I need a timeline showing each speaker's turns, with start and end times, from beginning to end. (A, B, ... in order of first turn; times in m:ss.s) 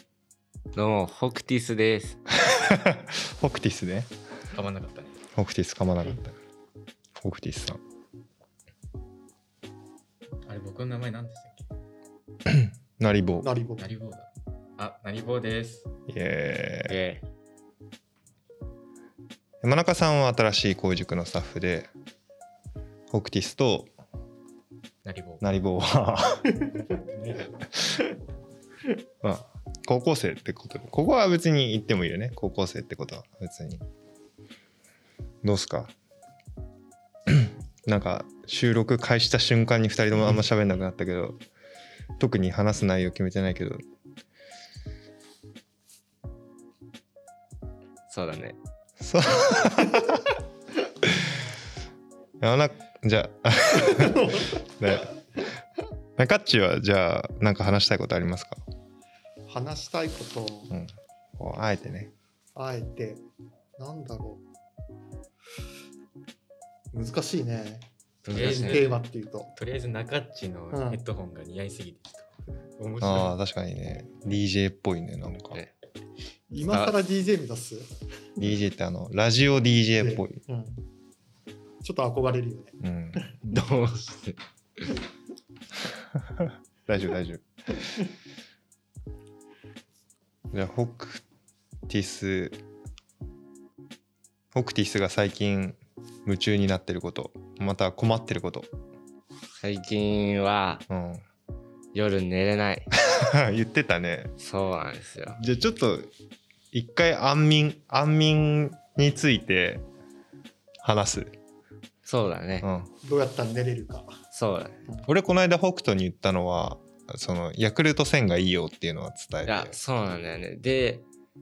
0:00.7-0:02.2 A
0:02.3-0:04.1 B
0:04.5-0:05.2 C
0:05.3-0:06.4 B
0:07.2-0:07.8 B
0:10.4-0:11.7 C
0:12.4-0:13.5 B
0:13.4-0:13.8 D
0:13.8-0:15.9 C
0:16.1-0:17.0 B
0:16.9-0:17.2 A
0:19.6-0:21.9 B
0:23.1-0:23.9 B
0:25.0-0:25.4 C
0:25.4-0:26.6 B
0:27.0-0:27.5 C
0:29.2-0:33.8 B
0:35.4-0:35.9 B
0:37.3-0:41.4 B
0:42.2-0:43.8 B
0:48.1-0:48.6 A
0:49.0-0:50.3 B
0:51.0-0:51.3 B
0:52.4-0:55.1 B
0:53.7-0:55.0 D
0:56.2-0:58.6 B
0:59.5-1:00.7 D
1:00.7-1:02.1 B
1:02.5-1:03.2 D
1:03.8-1:04.4 D
1:06.9-1:09.5 D
1:08.2-1:09.0 A
1:08.3-1:09.0 C
1:09.5-1:13.4 C
1:10.7-1:11.0 D
1:13.0-1:15.6 B
1:16.5-1:17.9 D
1:16.6-1:17.0 A
1:18.4-1:20.4 B
1:20.0-1:20.8 D
1:21.8-1:23.4 D
1:22.8-1:23.3 B
1:23.4-1:24.9 A
1:26.2-1:28.0 B
1:30.5-1:31.2 B
1:31.9-1:32.6 B
1:34.5-1:38.7 B
1:39.6-1:40.8 A
1:40.9-1:41.2 B
1:41.9-1:42.9 A
1:43.0-1:44.3 B
1:44.4-1:45.4 A
1:45.3-1:46.1 B
1:46.7-1:49.8 B
1:50.8-1:51.4 B
1:52.0-1:52.7 A
1:52.6-1:52.9 B
1:53.0-1:54.2 D
1:54.3-1:54.8 A
1:55.0-1:59.8 B
1:59.4-2:01.0 A